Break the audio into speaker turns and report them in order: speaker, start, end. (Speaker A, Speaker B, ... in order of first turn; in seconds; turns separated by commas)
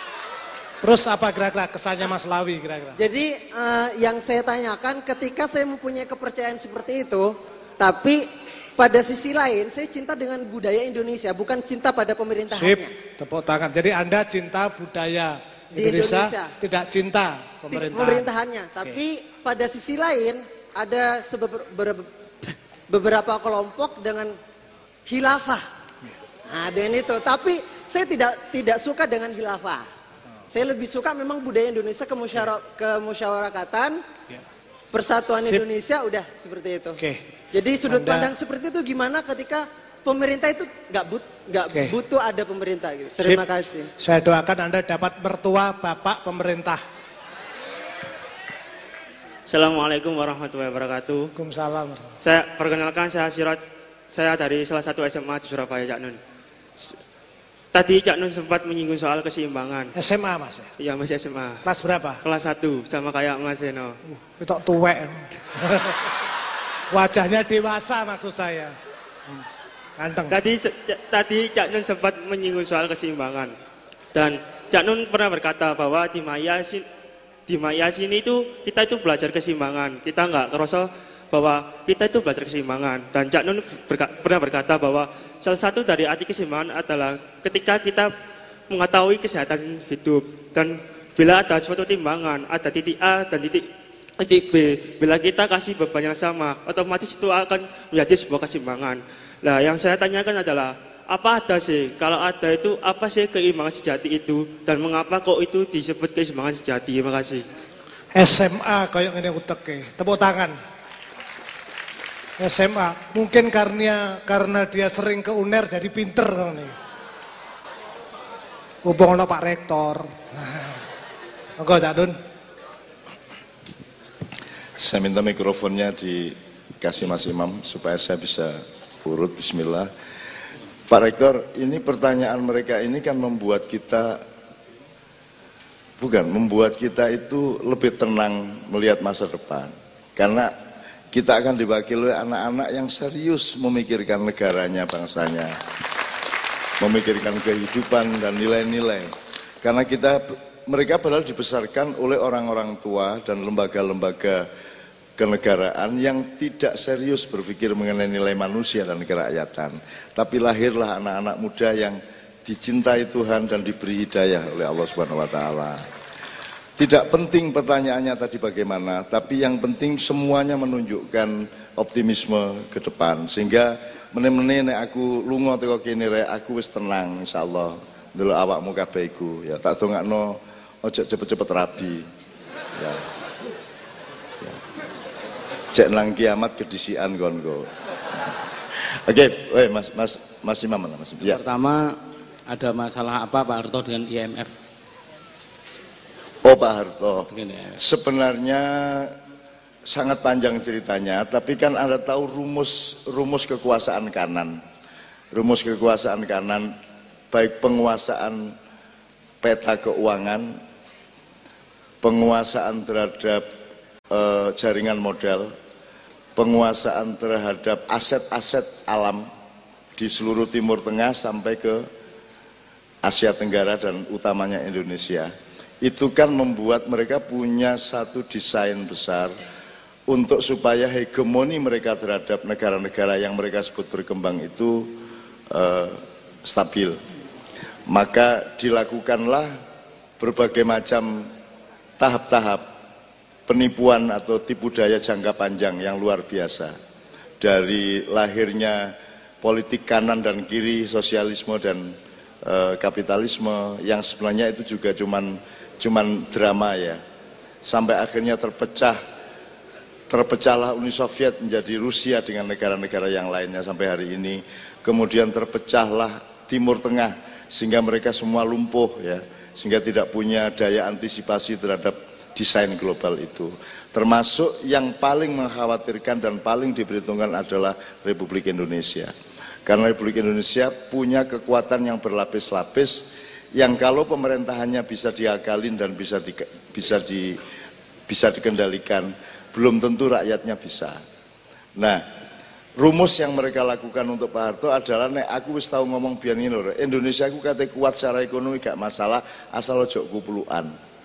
Speaker A: 0.8-3.0, Speaker B: 3.0-12.9, Speaker A: 12.5-18.3, Speaker B: 15.7-16.5, Speaker B: 17.7-24.3, Speaker B: 25.1-25.6, Speaker B: 26.5-29.9, Speaker B: 30.5-34.0, Speaker B: 34.9-37.0, Speaker B: 37.5-43.9, Speaker A: 37.9-38.3, Speaker A: 43.2-43.4, Speaker A: 44.0-46.8, Speaker C: 49.5-51.3, Speaker A: 51.4-52.1, Speaker C: 52.2-56.2, Speaker C: 57.7-59.9, Speaker A: 60.0-60.7, Speaker C: 60.8-61.6, Speaker A: 61.6-62.2, Speaker C: 62.2-64.0, Speaker A: 64.1-66.0, Speaker A: 66.9-68.8, Speaker A: 70.0-70.4, Speaker C: 70.3-73.5, Speaker C: 74.1-76.8, Speaker C: 77.5-88.1, Speaker C: 88.7-93.7, Speaker C: 94.2-107.4, Speaker A: 108.1-110.5, Speaker A: 112.4-116.7, Speaker A: 118.8-120.8, Speaker A: 121.6-122.1, Speaker D: 124.8-129.9, Speaker D: 130.9-134.2, Speaker D: 136.0-140.5, Speaker D: 141.1-145.5, Speaker D: 146.8-154.4, Speaker D: 155.2-165.8, Speaker D: 166.8-182.0, Speaker D: 182.8-183.0, Speaker D: 185.7-187.7, Speaker D: 189.1-191.4, Speaker E: 191.2-192.0, Speaker E: 192.5-194.5, Speaker D: 196.4-199.1, Speaker E: 197.3-197.8, Speaker D: 199.9-204.6, Speaker D: 205.3-206.7, Speaker D: 207.3-208.5, Speaker D: 209.4-210.5, Speaker D: 212.0-213.4, Speaker D: 214.1-215.5, Speaker D: 216.4-219.3, Speaker D: 220.0-221.8, Speaker D: 223.0-225.3, Speaker D: 225.8-229.3, Speaker D: 230.1-234.9, Speaker D: 235.5-237.0, Speaker D: 237.9-239.5, Speaker D: 240.2-241.3, Speaker D: 242.0-242.7, Speaker D: 243.5-246.7, Speaker D: 247.4-251.9, Speaker D: 252.4-257.0, Speaker D: 257.6-259.0, Speaker D: 260.1-279.1, Speaker D: 279.7-287.4, Speaker D: 288.1-291.0, Speaker D: 291.8-292.0, Speaker D: 292.8-300.7